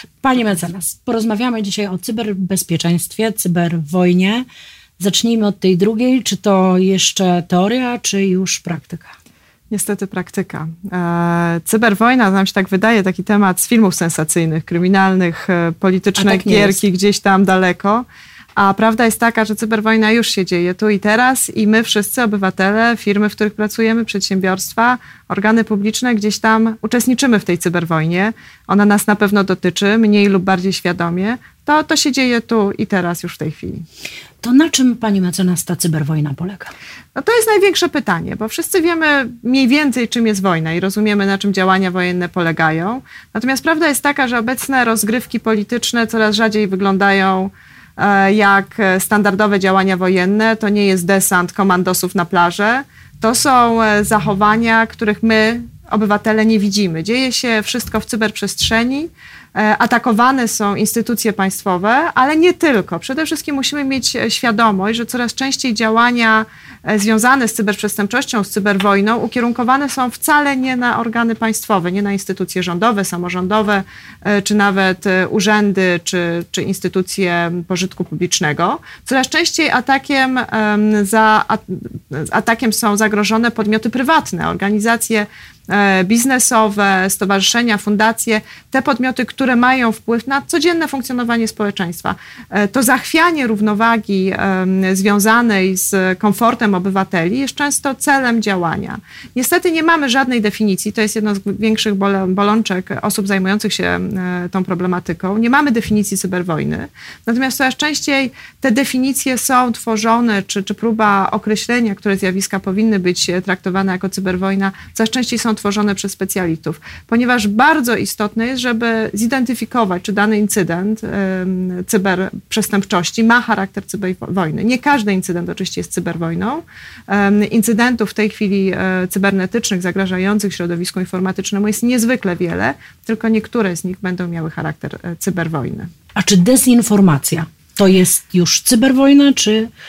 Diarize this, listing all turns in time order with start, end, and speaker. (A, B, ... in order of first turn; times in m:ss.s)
0:00.2-0:04.4 A
0:05.0-0:09.1 A
0:09.7-0:18.0 B
0:16.2-0:16.8 A
0:18.6-0:33.8 B
0:34.4-0:36.7 A
0:37.2-2:15.9 B
2:16.2-2:19.7 A